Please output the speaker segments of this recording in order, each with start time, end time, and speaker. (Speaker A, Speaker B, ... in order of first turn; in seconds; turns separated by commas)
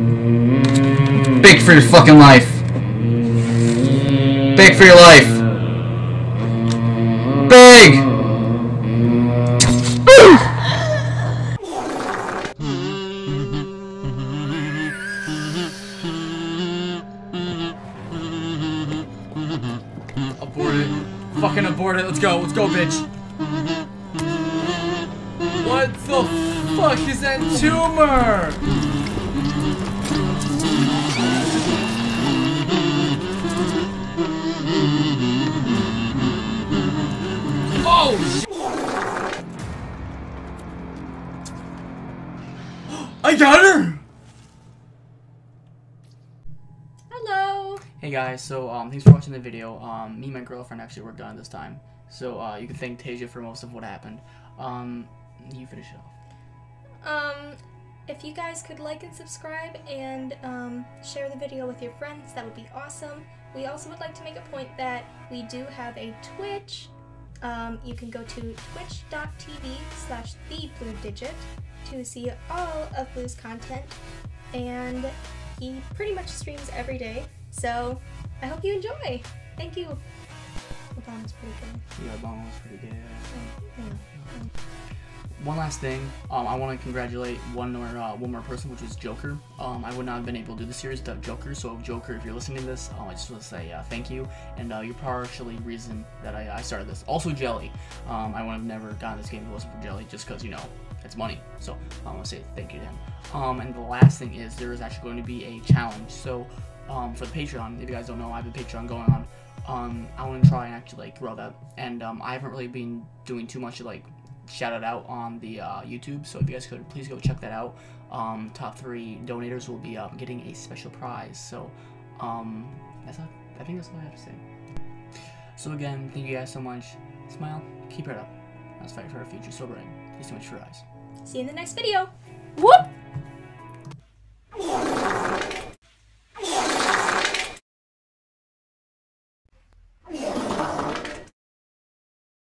Speaker A: 1.2-2.6, Speaker A: 4.5-5.4, Speaker A: 7.5-8.1, Speaker A: 20.4-23.1, Speaker A: 25.6-28.6, Speaker A: 37.8-38.4, Speaker A: 42.9-44.0, Speaker B: 47.1-47.8, Speaker A: 48.0-56.1, Speaker B: 57.0-74.0, Speaker B: 74.5-80.0, Speaker B: 81.0-81.8, Speaker A: 82.0-83.5, Speaker B: 83.3-84.5, Speaker A: 85.4-124.4, Speaker A: 125.6-130.8, Speaker B: 131.2-132.9